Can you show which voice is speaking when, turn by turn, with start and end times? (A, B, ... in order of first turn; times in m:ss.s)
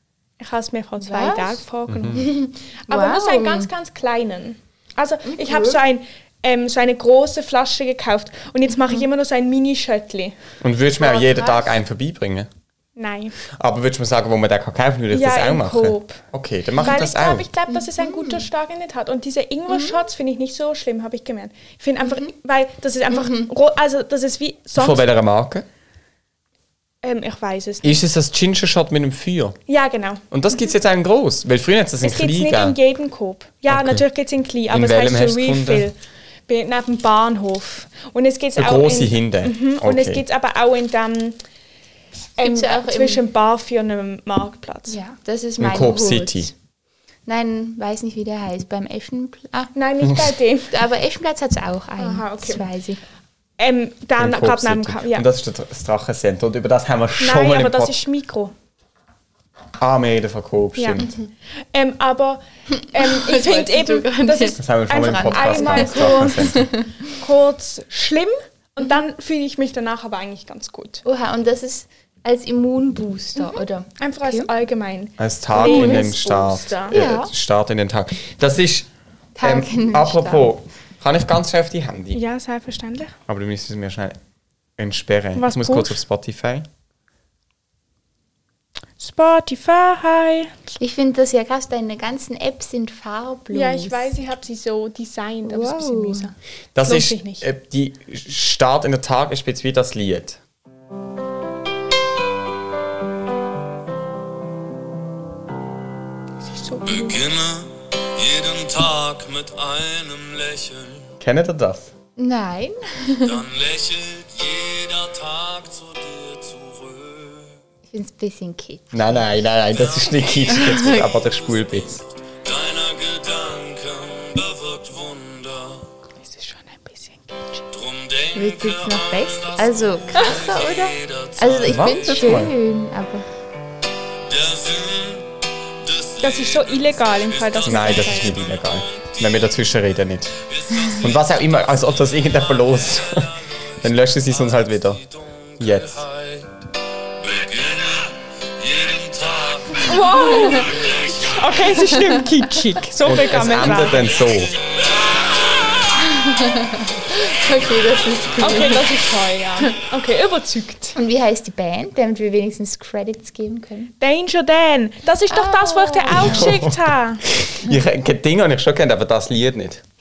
0:00.4-0:02.3 A
0:01.0-0:03.7 B
0:01.9-0:02.2 C
0:02.9-0:10.4 A
0:05.3-0:05.8 B
0:10.6-0:12.5 C
0:11.0-0:11.7 B
0:13.0-0:13.4 A
0:13.5-0:17.5 C
0:15.1-0:16.2 A
0:16.8-0:25.0 A
0:17.7-0:18.5 B
0:19.7-0:19.9 B
0:22.0-0:22.3 B
0:23.1-0:23.5 B
0:24.8-0:25.7 C
0:27.0-0:28.0 A
0:27.8-0:29.6 C
0:29.7-0:30.3 A
0:30.3-0:32.8 C
0:32.0-0:36.0 A
0:33.7-0:34.0 C
0:34.7-0:35.9 C
0:36.5-0:41.4 A
0:38.6-0:40.2 C
0:42.4-0:45.0 A
0:42.4-0:43.2 B
0:44.9-0:46.5 B
0:45.6-0:46.5 C
0:47.3-0:49.7 B
0:49.8-0:50.8 A
0:50.0-0:50.3 C
0:50.7-0:53.0 B
0:52.0-0:52.7 A
0:53.6-0:55.3 A
0:54.2-0:58.0 C
0:57.2-0:58.5 A
0:59.8-1:01.1 C
1:00.8-1:01.0 A
1:01.0-1:01.3 B
1:01.7-1:02.4 A
1:02.7-1:07.2 B
1:02.9-1:06.5 A
1:04.6-1:06.7 C
1:07.1-1:11.0 A
1:11.0-1:14.5 B
1:13.4-1:17.0 A
1:15.2-1:18.9 C
1:15.6-1:16.0 B
1:16.9-1:17.3 B
1:19.4-1:20.5 B
1:19.4-1:22.2 C
1:22.1-1:23.2 A
1:23.3-1:24.2 C
1:24.8-1:26.7 C
1:25.4-1:26.0 A
1:29.0-1:30.6 A
1:30.8-1:34.1 B
1:33.5-1:37.4 A
1:35.5-1:36.3 B
1:36.8-1:40.4 C
1:46.5-1:47.2 A
1:46.9-1:51.1 D
1:51.2-1:51.9 C
1:52.2-1:53.4 B
1:53.2-1:57.6 D
1:57.9-1:59.3 B
1:58.9-2:02.0 C
1:59.7-2:05.9 D
2:00.5-2:01.0 B
2:06.2-2:07.6 A
2:07.7-2:12.2 D
2:08.4-2:13.3 B
2:11.6-2:12.5 C
2:14.2-2:19.5 D
2:16.2-2:18.4 A
2:17.6-2:20.4 C
2:20.4-2:26.5 D
2:21.0-2:25.0 C
2:25.6-2:26.0 C
2:27.2-2:31.6 D
2:29.8-2:34.1 A
2:30.3-2:30.7 B
2:31.9-2:32.2 B
2:33.0-2:34.5 C
2:33.7-2:35.9 D
2:36.1-2:38.9 B
2:38.4-2:41.0 A
2:41.0-2:43.9 B
2:44.0-2:47.2 A
2:45.3-2:46.5 B
2:46.1-2:49.8 C